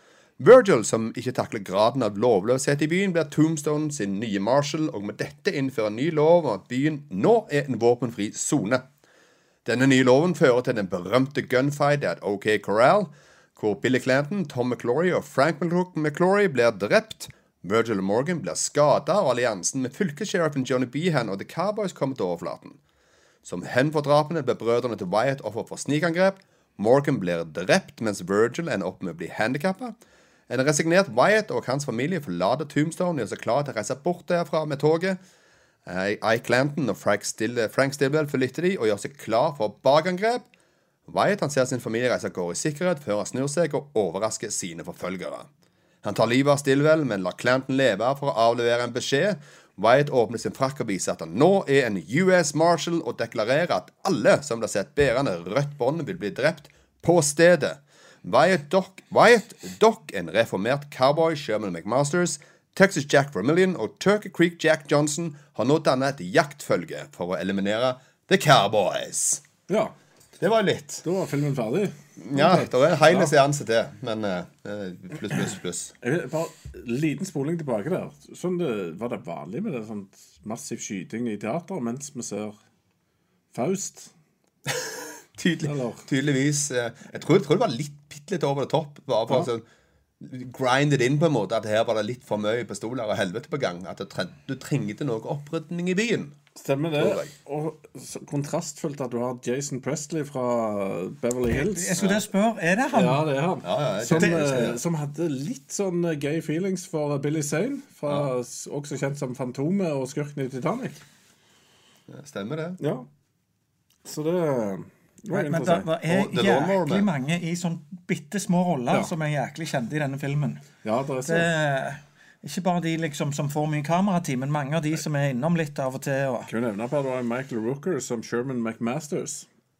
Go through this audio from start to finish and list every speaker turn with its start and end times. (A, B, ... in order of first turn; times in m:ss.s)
0:00.4-0:08.9 A
0:09.6-0:22.8 A
0:23.4-0:30.0 A
0:30.5-0:35.2 A
0:35.9-0:40.5 A
0:41.1-0:45.5 A
0:46.0-1:09.4 A
1:09.7-1:10.0 B
1:10.4-1:11.0 A
1:11.0-1:13.3 B
1:12.2-1:15.9 A
1:16.0-1:22.6 B
1:23.5-1:24.1 B
1:24.7-1:29.6 A
1:25.6-1:26.0 B
1:30.2-1:36.4 A
1:36.6-1:42.0 B
1:37.0-1:37.3 A
1:41.5-1:43.2 C
1:42.0-1:42.2 A
1:42.9-1:51.0 B
1:43.6-1:44.8 A
1:52.1-1:52.8 A
1:52.8-1:53.1 B
1:54.0-1:55.9 B
1:55.3-2:00.7 C
1:56.1-1:57.1 A
2:00.8-2:01.5 B
2:01.3-2:06.5 C
2:06.5-2:09.5 B